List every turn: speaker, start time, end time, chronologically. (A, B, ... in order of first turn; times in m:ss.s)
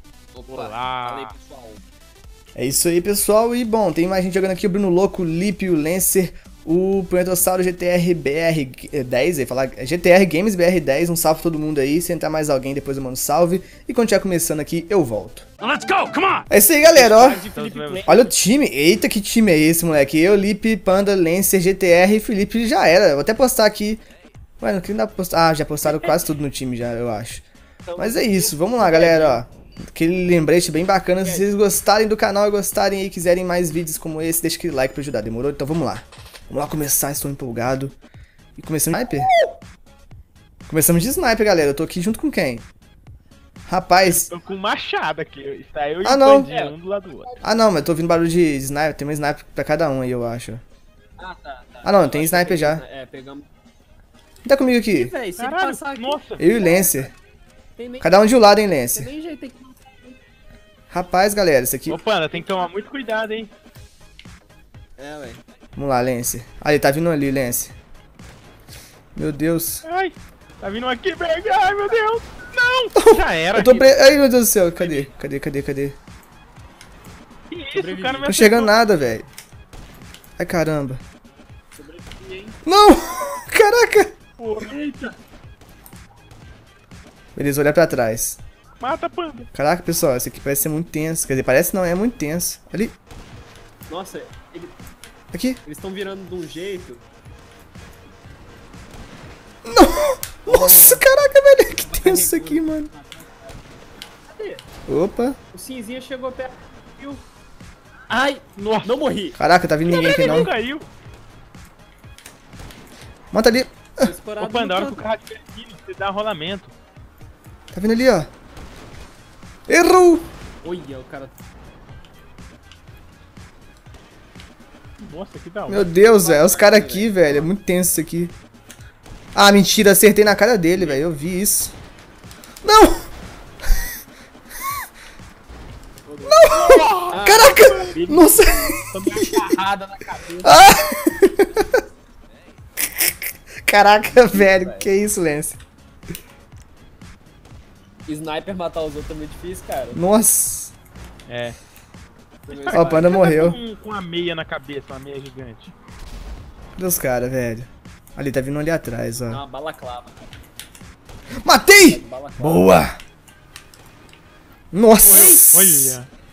0:00.4-0:01.8 A
0:00.5-0:01.3 B
0:02.6-0:15.5 C
0:15.6-0:18.2 A
0:16.5-0:17.4 C
0:17.5-0:18.2 B
0:18.1-0:24.0 C
0:24.6-0:27.4 C
0:25.8-0:26.2 A
0:27.9-0:29.4 A
0:28.0-0:38.0 C
0:31.2-0:31.5 A
0:38.6-0:39.3 C
0:40.7-0:42.6 C
0:43.7-0:44.3 C
0:44.0-0:47.3 B
0:46.0-0:46.5 C
0:46.5-0:47.5 A
0:47.4-0:50.6 C
0:51.2-0:53.5 A
0:51.8-0:52.8 C
0:54.4-0:55.1 C
0:54.9-0:57.1 A
0:55.4-0:56.5 B
0:56.4-0:57.1 C
0:57.8-0:58.1 A
0:58.0-0:59.1 C
0:58.9-1:00.2 A
1:00.9-1:02.0 C
1:01.9-1:03.5 B
1:02.3-1:02.6 A
1:05.0-1:05.4 A
1:05.8-1:07.7 C
1:09.2-1:09.8 C
1:09.8-1:13.8 B
1:13.0-1:16.0 C
1:13.6-1:14.0 A
1:14.8-1:15.1 A
1:17.5-1:18.8 B
1:17.7-1:18.3 A
1:18.3-1:19.3 C
1:20.4-1:21.0 C
1:21.8-1:22.6 A
1:22.6-1:24.1 C
1:24.4-1:25.1 B
1:24.6-1:25.2 A
1:27.4-1:28.4 C
1:28.8-1:29.5 B
1:29.5-1:33.0 C
1:33.9-1:34.7 A
1:35.3-1:35.6 C
1:35.6-1:37.0 A
1:39.7-1:42.9 C
1:40.5-1:41.1 A
1:41.8-1:43.6 A
1:44.3-1:44.6 A
1:44.9-1:45.4 C
1:45.5-1:47.2 A
1:48.1-1:49.4 A
1:48.1-1:48.9 B
1:49.4-1:50.5 C
1:49.8-1:50.9 B
1:53.3-1:54.1 C
1:54.0-1:55.1 A
1:54.4-1:56.7 B
1:57.7-1:58.3 C
1:59.7-2:00.3 C
2:00.6-2:01.4 A
2:05.0-2:05.9 B
2:05.7-2:08.3 C
2:06.0-2:07.5 A
2:09.4-2:11.7 C
2:12.6-2:13.1 C
2:16.1-2:16.5 A
2:16.3-2:19.4 C
2:16.5-2:18.3 B
2:17.1-2:20.6 A
2:20.4-2:21.8 C
2:22.8-2:25.6 C
2:24.1-2:24.9 A
2:28.1-2:30.0 A
2:29.9-2:30.7 C
2:31.3-2:31.6 B
2:32.5-2:33.3 A
2:32.5-2:35.7 B
2:32.7-2:33.6 C
2:36.8-2:39.4 C
2:39.3-2:40.3 A
2:41.4-2:43.0 C
2:41.8-2:42.8 A
2:44.7-2:46.0 C
2:45.0-2:46.1 B
2:45.1-2:45.4 A